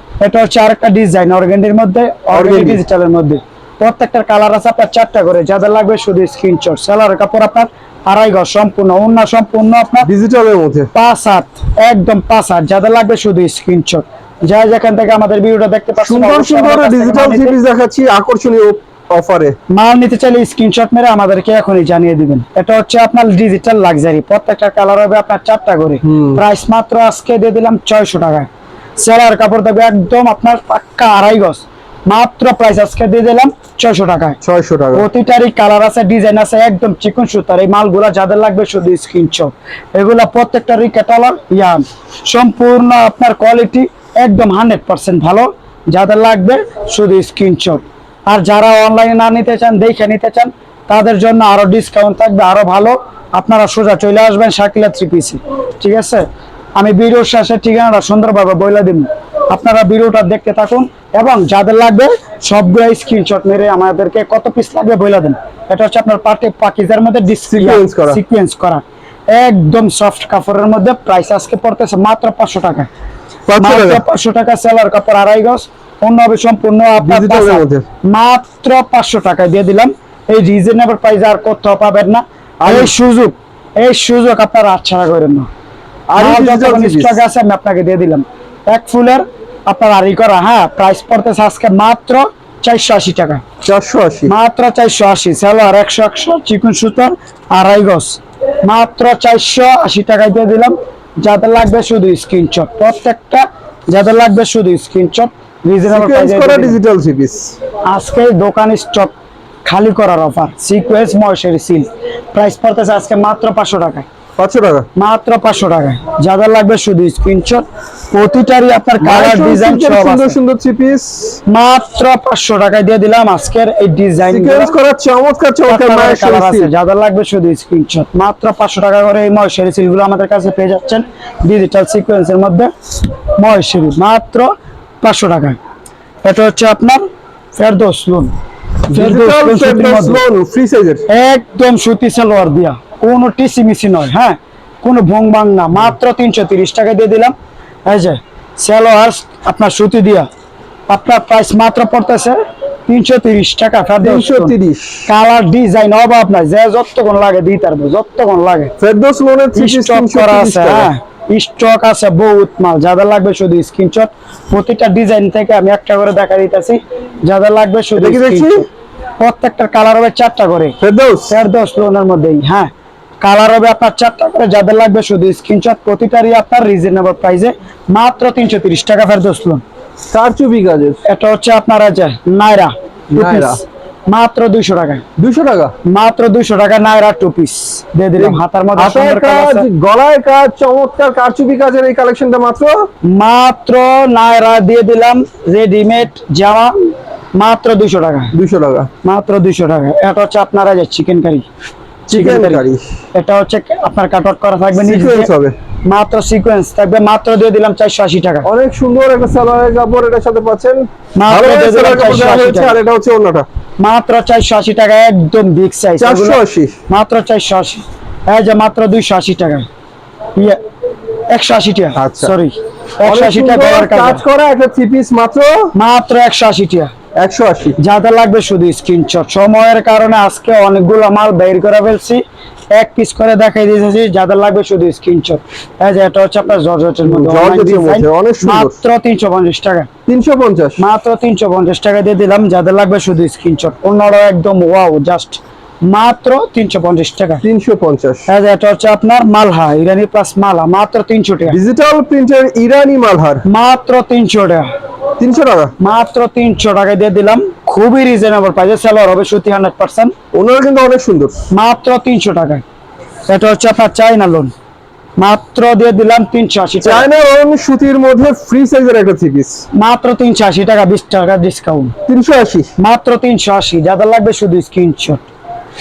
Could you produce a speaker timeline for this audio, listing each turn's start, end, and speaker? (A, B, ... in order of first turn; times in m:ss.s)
0:00.2-0:10.1 A
0:02.3-0:02.8 B
0:10.0-0:10.9 B
0:10.9-0:17.6 A
0:16.0-0:19.6 B
0:19.7-0:34.4 A
0:26.0-0:26.4 B
0:34.4-0:35.0 B
0:34.9-0:56.3 A
0:56.8-1:12.9 A
1:07.5-1:08.2 B
1:13.5-1:14.0 B
1:13.6-1:25.5 A
1:17.0-1:17.8 B
1:22.6-1:22.9 B
1:26.1-1:27.2 B
1:26.2-1:33.4 A
1:33.6-1:34.3 B
1:34.3-1:46.8 A
1:45.9-1:47.6 B
1:47.8-1:49.1 A
1:49.6-1:54.1 A
1:54.4-1:54.9 B
1:55.0-2:00.4 A
1:59.0-2:01.4 B
2:01.5-2:04.7 A
2:04.3-2:06.7 B
2:05.7-2:12.7 A
2:13.4-2:15.6 A
2:16.2-2:17.0 A
2:17.6-2:18.3 A
2:18.9-2:20.2 A
2:18.9-2:21.0 B
2:21.1-2:27.3 A
2:27.9-2:30.3 A
2:30.9-2:34.5 A
2:34.0-2:35.1 B
2:35.1-2:38.7 A
2:38.8-2:40.9 B
2:39.6-2:48.7 A
2:48.0-2:48.6 B
2:49.2-2:50.8 A
2:50.8-2:51.3 B
2:51.3-2:59.6 A
3:00.1-3:01.0 B
3:01.0-3:05.0 A
3:03.1-3:03.6 B
3:05.2-3:05.7 B
3:05.8-3:09.7 A
3:08.2-3:12.9 B
3:13.0-3:18.3 A
3:18.3-3:18.9 B
3:19.0-3:21.5 A
3:22.1-3:22.8 B
3:22.1-3:22.6 A
3:23.2-3:25.3 A
3:24.7-3:25.6 B
3:25.8-3:28.5 A
3:28.4-3:33.5 B
3:31.2-3:32.8 A
3:33.8-3:39.7 A
3:36.0-3:36.8 B
3:41.3-3:44.2 A
3:42.0-3:42.3 B
3:43.0-3:45.7 B
3:45.7-3:46.9 A
3:47.2-3:47.8 B
3:47.8-3:52.2 A
3:52.7-3:59.9 A
3:57.0-3:58.8 B
4:00.1-4:00.8 B
4:00.8-4:07.4 A
4:07.4-4:08.3 B
4:08.3-4:11.6 A
4:11.5-4:13.4 B
4:13.5-4:14.7 A
4:15.2-4:15.7 B
4:15.8-4:20.1 A
4:20.3-4:21.4 B
4:21.5-4:22.6 A
4:23.3-4:24.5 A
4:25.2-4:27.1 A
4:26.8-4:29.6 B
4:29.8-4:32.0 A
4:32.1-4:32.7 B
4:32.8-4:35.2 A